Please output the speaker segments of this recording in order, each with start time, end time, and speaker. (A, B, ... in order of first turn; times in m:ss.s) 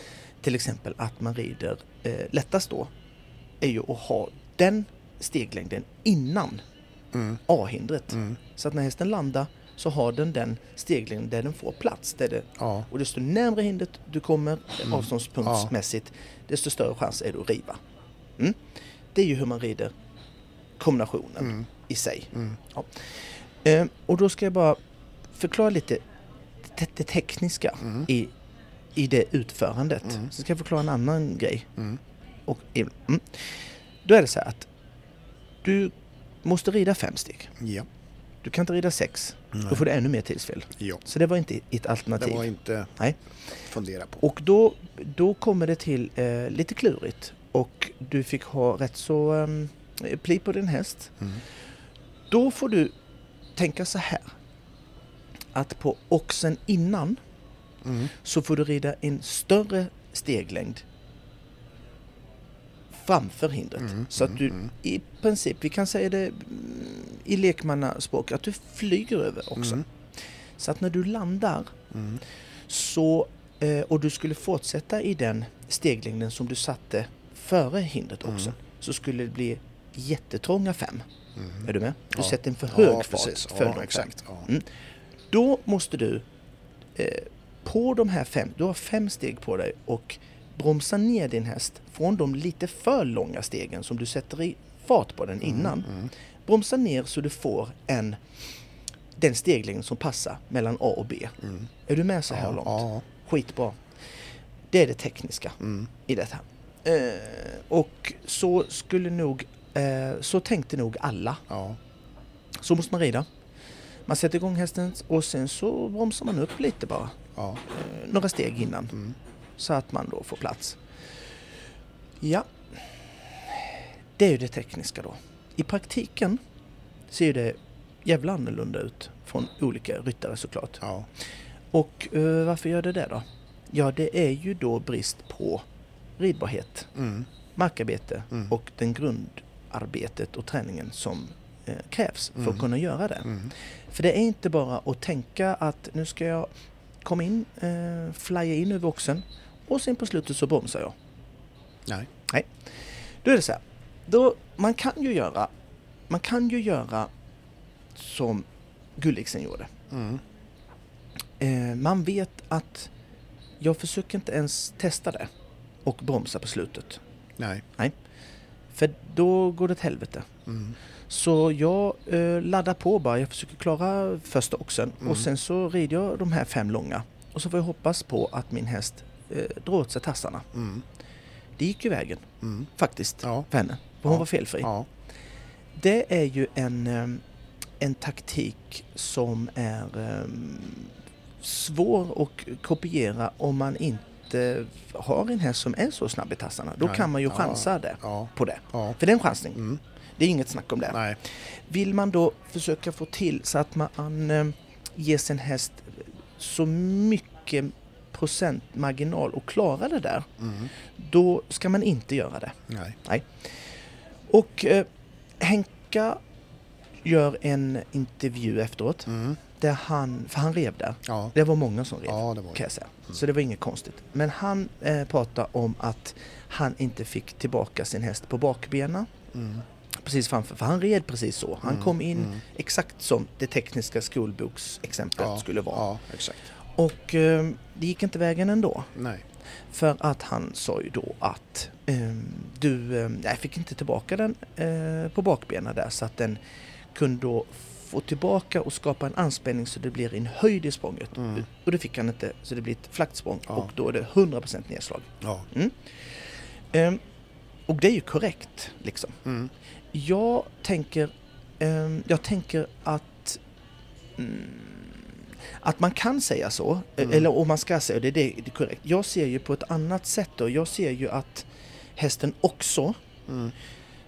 0:00.4-0:02.9 A
0:03.6-0:06.6 A
0:07.1-0:07.4 B
0:07.5-0:17.8 A
0:12.6-0:12.9 B
0:14.9-0:15.7 B
0:19.1-0:19.9 A
0:20.8-0:24.8 A
0:25.3-0:26.0 A
0:26.6-0:28.3 A
0:28.9-0:31.7 A
0:32.5-0:34.7 A
0:35.6-0:37.5 A
0:37.6-0:37.8 B
0:38.4-0:42.4 A
0:39.5-0:39.8 B
0:42.2-0:43.0 B
0:43.6-0:44.2 B
0:44.2-0:51.2 A
0:52.3-0:52.9 A
0:53.6-0:54.2 A
0:55.5-0:57.2 A
0:57.8-0:58.1 B
0:58.2-1:00.8 A
1:02.9-1:09.8 A
1:03.9-1:04.7 B
1:10.6-1:11.7 A
1:11.9-1:12.2 B
1:12.7-1:21.0 A
1:21.4-1:24.5 B
1:21.6-1:24.7 A
1:25.3-1:26.2 A
1:27.0-1:35.9 A
1:35.4-1:36.1 B
1:36.4-1:38.2 A
1:39.2-1:43.8 A
1:42.3-1:43.0 B
1:44.7-1:51.4 A
1:45.6-1:45.9 B
1:51.5-1:51.8 B
1:52.6-1:53.3 A
1:54.1-1:58.9 A
1:57.4-1:57.6 B
1:59.6-2:00.8 A
2:02.2-2:06.4 A
2:07.1-2:10.8 A
2:10.8-2:11.1 B
2:11.7-2:15.6 A
2:16.2-2:16.9 A
2:17.0-2:17.2 B
2:17.5-2:26.5 A
2:27.0-2:31.0 A
2:33.2-2:35.5 A
2:36.1-2:37.1 A
2:37.9-2:39.7 A
2:39.9-2:40.2 B
2:41.4-2:42.9 A
2:43.6-2:45.3 A
2:45.8-2:47.0 A
2:48.7-2:50.3 A
2:50.5-2:50.7 B
2:51.1-3:00.5 A
3:00.5-3:00.8 B
3:01.6-3:04.7 A
3:02.4-3:02.7 B
3:04.1-3:04.9 B
3:05.7-3:07.2 A
3:07.8-3:19.6 A
3:16.8-3:19.0 B
3:20.2-3:30.3 A
3:20.9-3:21.2 B
3:30.4-3:30.7 B
3:31.0-3:33.7 A
3:32.7-3:33.0 B
3:34.3-3:34.9 A
3:35.4-3:36.2 A
3:37.0-3:49.1 A
3:39.1-3:39.4 B
3:41.0-3:41.3 B
3:42.1-3:42.6 B
3:49.3-3:49.6 B
3:49.9-3:55.8 A
3:51.6-3:52.4 B
3:55.2-3:56.4 B
3:56.7-3:58.9 A
3:58.9-3:59.2 B
3:59.7-4:06.4 A
4:06.9-4:17.0 A
4:11.2-4:11.4 B
4:15.2-4:15.5 B
4:17.7-4:19.2 A
4:19.2-4:19.5 B
4:19.9-4:23.4 A
4:24.2-4:33.0 A
4:27.0-4:27.3 B
4:33.3-4:33.5 B